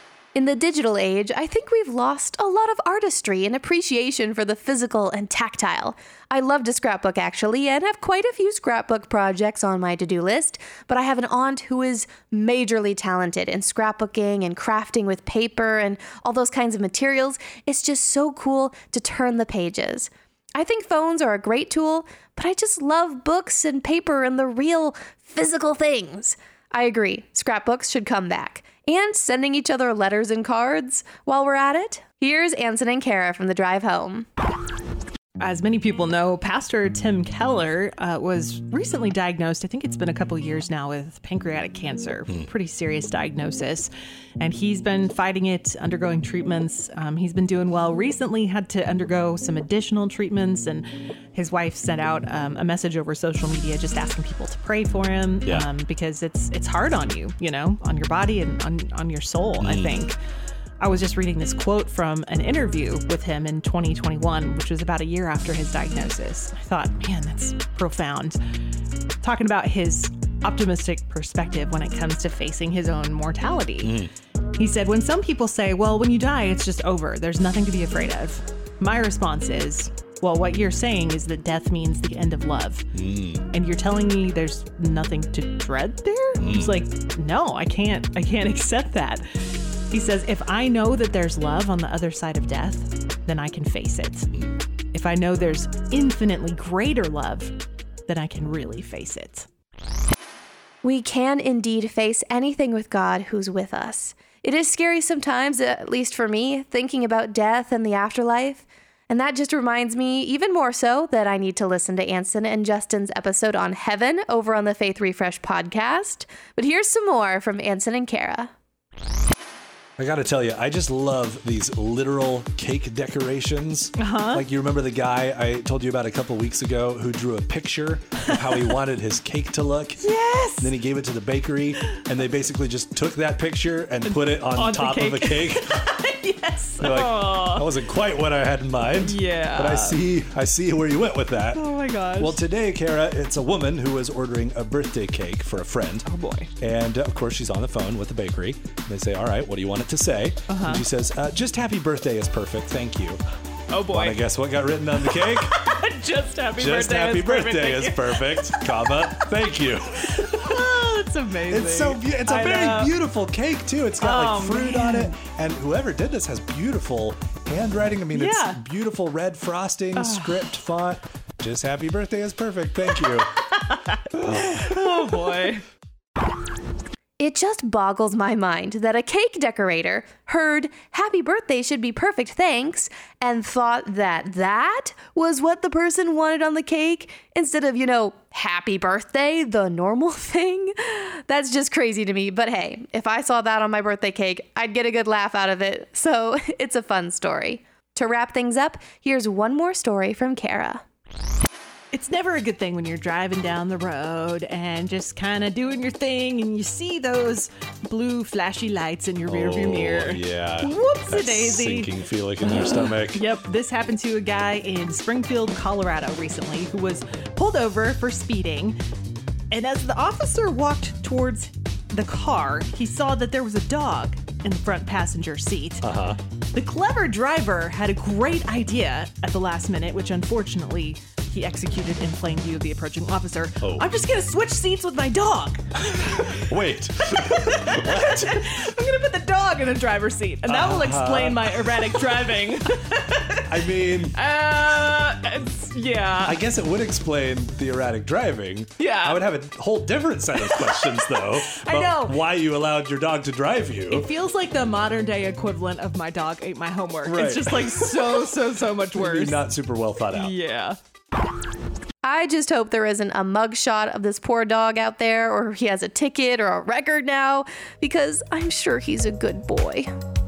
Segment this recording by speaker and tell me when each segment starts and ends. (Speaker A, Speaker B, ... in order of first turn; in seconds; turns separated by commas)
Speaker A: 0.3-34.3, Speaker B: 35.4-60.2, Speaker C: 59.6-60.1, Speaker B: 60.8-68.4, Speaker B: 69.2-74.0, Speaker C: 73.8-74.1, Speaker B: 74.6-82.9, Speaker C: 83.0-83.4, Speaker B: 83.5-89.3, Speaker C: 86.4-86.8, Speaker B: 89.9-94.3, Speaker B: 94.9-99.5, Speaker A: 100.8-118.5, Speaker C: 120.0-135.7, Speaker B: 124.0-124.5, Speaker B: 128.4-128.7, Speaker B: 130.0-130.7, Speaker B: 134.1-137.7, Speaker C: 136.8-146.1, Speaker B: 139.0-140.0, Speaker B: 141.5-142.4, Speaker B: 146.0-146.5, Speaker C: 146.6-153.2, Speaker B: 150.5-150.8, Speaker B: 153.7-154.2, Speaker C: 153.9-155.6, Speaker B: 155.0-159.5, Speaker C: 156.6-160.5, Speaker B: 160.1-162.9, Speaker C: 161.5-173.3, Speaker B: 164.0-165.2, Speaker B: 168.1-168.6, Speaker B: 170.0-170.5, Speaker B: 173.5-175.6, Speaker C: 174.1-175.6, Speaker A: 177.2-200.8, Speaker B: 201.9-218.8, Speaker C: 209.3-213.3, Speaker B: 219.5-225.9, Speaker C: 225.8-226.2, Speaker B: 226.5-236.4, Speaker C: 233.6-233.9, Speaker C: 235.9-238.5, Speaker B: 237.1-246.4, Speaker C: 240.4-241.8, Speaker C: 243.5-244.2, Speaker C: 246.2-254.1, Speaker B: 248.8-249.3, Speaker B: 250.4-252.2, Speaker B: 253.9-259.4, Speaker C: 257.1-258.2, Speaker C: 258.9-260.4, Speaker B: 260.1-260.8, Speaker A: 262.0-269.9